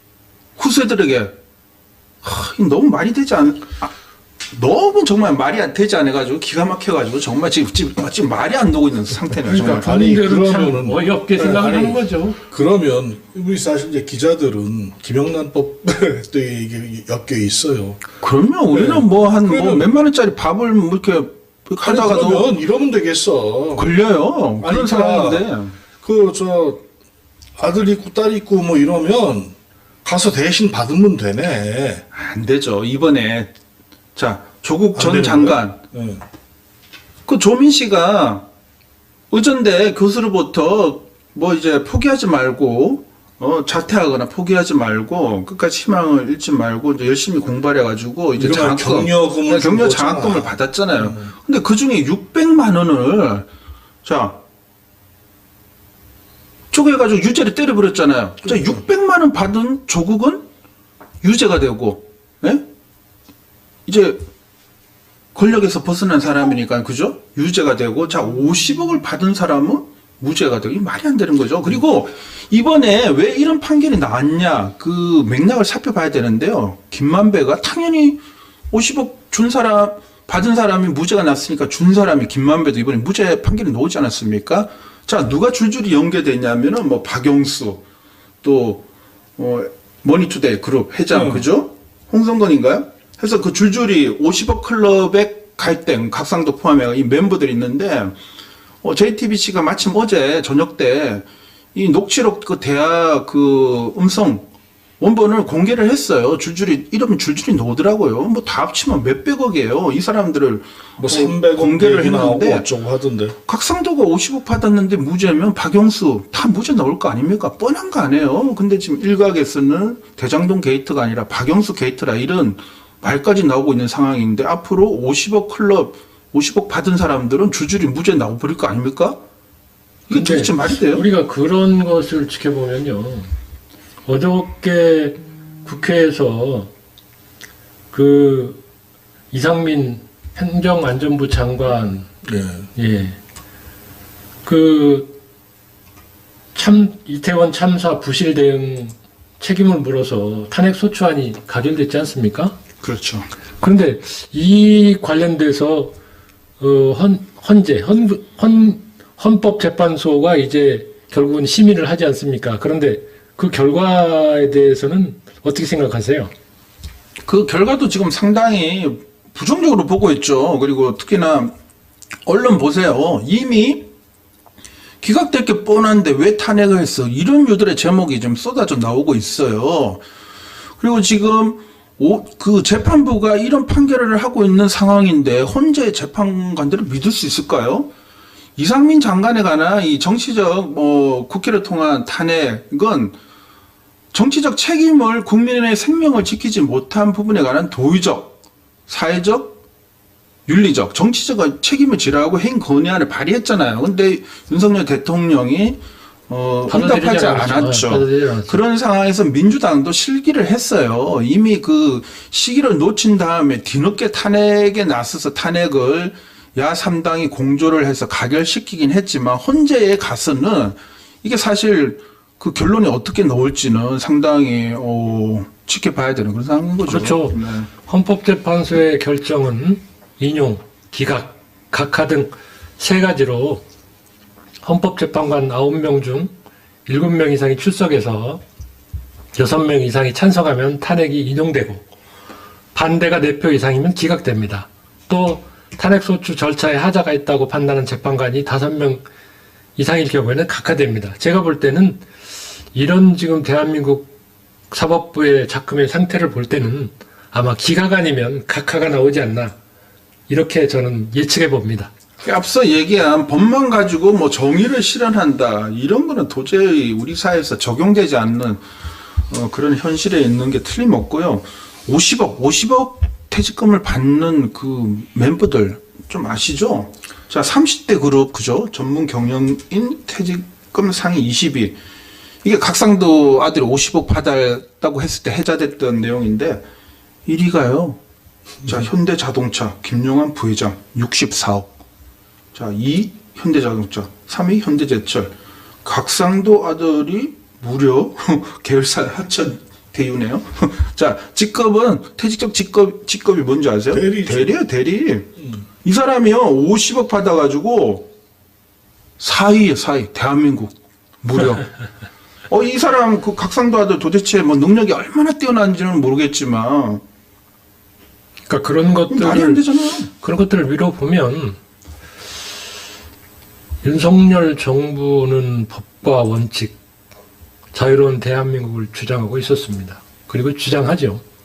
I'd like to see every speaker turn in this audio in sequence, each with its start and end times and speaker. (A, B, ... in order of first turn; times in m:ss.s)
0:00.6-0:01.3 A
0:02.2-0:03.9 A
0:04.5-0:09.9 A
0:09.5-0:12.4 B
0:09.5-0:18.0 C
0:18.2-0:22.5 A
0:18.7-0:19.9 C
0:21.8-0:23.9 C
0:23.8-0:25.7 A
0:24.6-0:25.5 C
0:26.0-0:26.8 C
0:27.6-0:32.0 C
0:32.1-0:33.5 A
0:34.2-0:35.8 A
0:35.0-0:36.2 C
0:37.3-0:38.5 A
0:39.3-0:53.5 A
0:48.4-0:51.2 C
0:54.0-0:54.4 A
0:56.7-1:00.4 A
1:01.2-1:02.6 A
1:03.9-1:04.2 A
1:05.4-1:18.2 A
1:18.7-1:27.8 A
1:28.4-1:28.8 A
1:29.4-1:38.2 A
1:31.1-1:31.5 C
1:38.8-1:44.5 A
1:45.0-1:52.7 A
1:51.0-1:53.4 C
1:53.5-2:09.2 A
2:10.1-2:11.0 A
2:10.1-2:13.3 B
2:14.0-2:16.7 B
2:17.9-2:18.6 B
2:19.3-2:22.1 B
2:22.2-2:22.7 C
2:22.8-2:23.2 B
2:24.4-2:25.2 B
2:26.6-2:32.6 B
2:32.8-2:33.3 A
2:33.6-2:36.0 B
2:36.6-2:46.3 B
2:47.3-2:51.5 A
2:52.3-2:53.9 A
2:55.0-3:00.0 A
3:00.8-3:07.9 A
3:08.6-3:13.2 A
3:14.1-3:18.4 A
3:18.9-3:19.6 A
3:20.5-3:47.7 A
3:26.7-3:28.6 B
3:46.8-3:53.6 B
3:54.6-3:56.3 B
3:56.9-3:58.4 B
3:59.3-4:01.9 B
4:02.7-4:09.0 B
4:09.8-4:12.0 B
4:12.7-4:14.1 B
4:14.7-4:19.6 B
4:20.3-4:21.9 B
4:22.2-4:28.6 A
4:29.3-4:41.8 A
4:42.4-4:46.6 A
4:47.3-4:48.0 A
4:48.6-4:51.7 A
4:52.6-4:55.3 A
4:55.8-5:05.3 A
5:03.9-5:04.5 C
5:05.8-5:08.1 A
5:09.2-5:11.7 A
5:12.5-5:17.0 A
5:18.5-5:21.6 B
5:19.1-5:20.1 A
5:23.8-5:26.8 B
5:27.7-5:31.2 B